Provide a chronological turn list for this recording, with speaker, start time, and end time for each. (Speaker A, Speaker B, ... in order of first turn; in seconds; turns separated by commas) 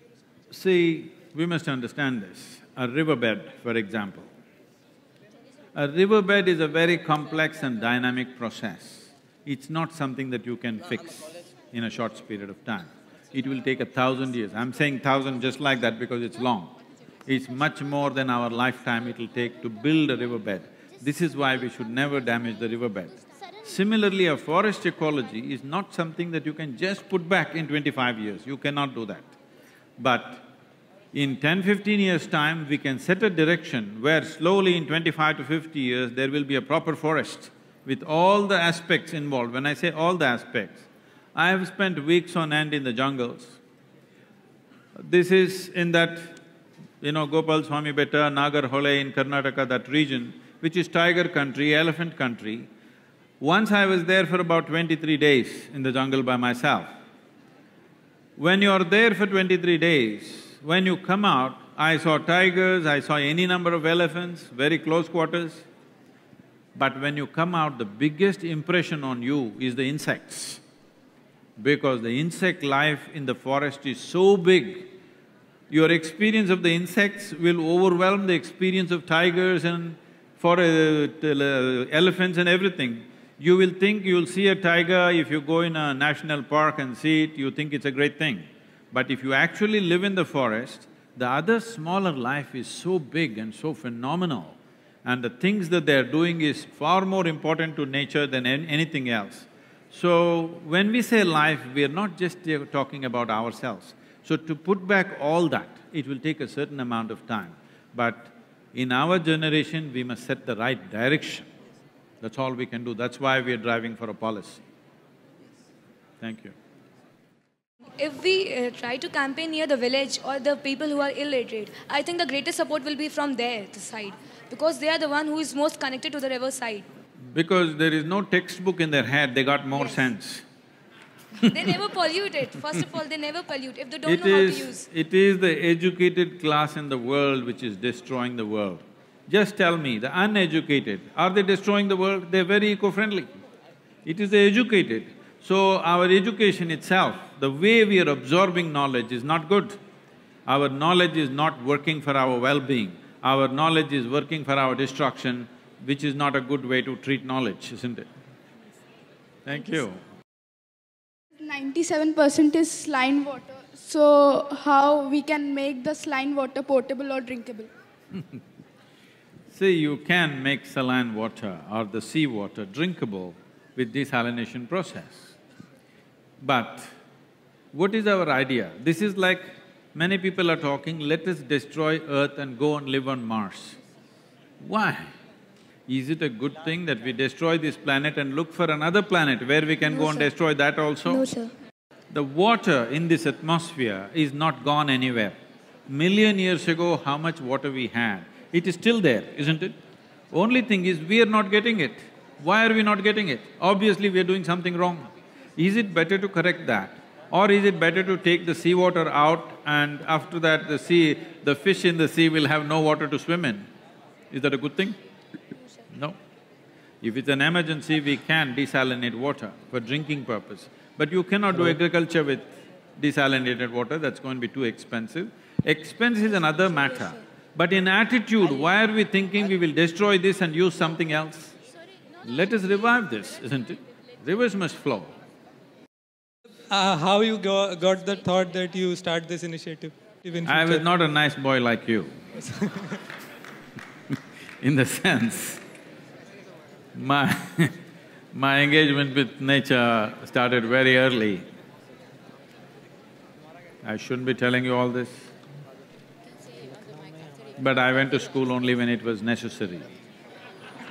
Speaker A: 0.5-4.3, Speaker A: 5.7-16.7, Speaker A: 17.2-29.3, Speaker A: 30.0-30.4, Speaker A: 31.1-43.6, Speaker A: 44.9-46.4, Speaker A: 47.0-52.7, Speaker A: 53.4-56.9, Speaker A: 58.4-65.7, Speaker A: 66.7-70.6, Speaker A: 71.6-74.9, Speaker A: 75.7-111.5, Speaker A: 112.2-114.6, Speaker A: 116.2-116.5, Speaker B: 118.0-126.8, Speaker A: 127.3-130.4, Speaker B: 131.4-134.8, Speaker A: 134.1-143.3, Speaker A: 144.0-149.8, Speaker A: 150.5-158.1, Speaker A: 159.4-160.0, Speaker C: 161.4-167.7, Speaker A: 169.5-175.3, Speaker A: 176.4-176.9, Speaker A: 177.7-183.8, Speaker A: 184.6-185.1, Speaker A: 185.9-191.3, Speaker B: 191.2-191.4, Speaker A: 192.1-195.4, Speaker A: 195.9-199.7, Speaker A: 200.3-213.6, Speaker A: 214.3-214.9, Speaker A: 215.9-216.2, Speaker A: 217.0-231.5, Speaker A: 232.2-235.1, Speaker D: 236.7-240.8, Speaker A: 240.4-242.2, Speaker D: 242.5-242.9, Speaker A: 244.6-245.6, Speaker A: 246.9-247.7, Speaker A: 248.3-251.4, Speaker A: 253.8-255.3, Speaker A: 257.6-259.9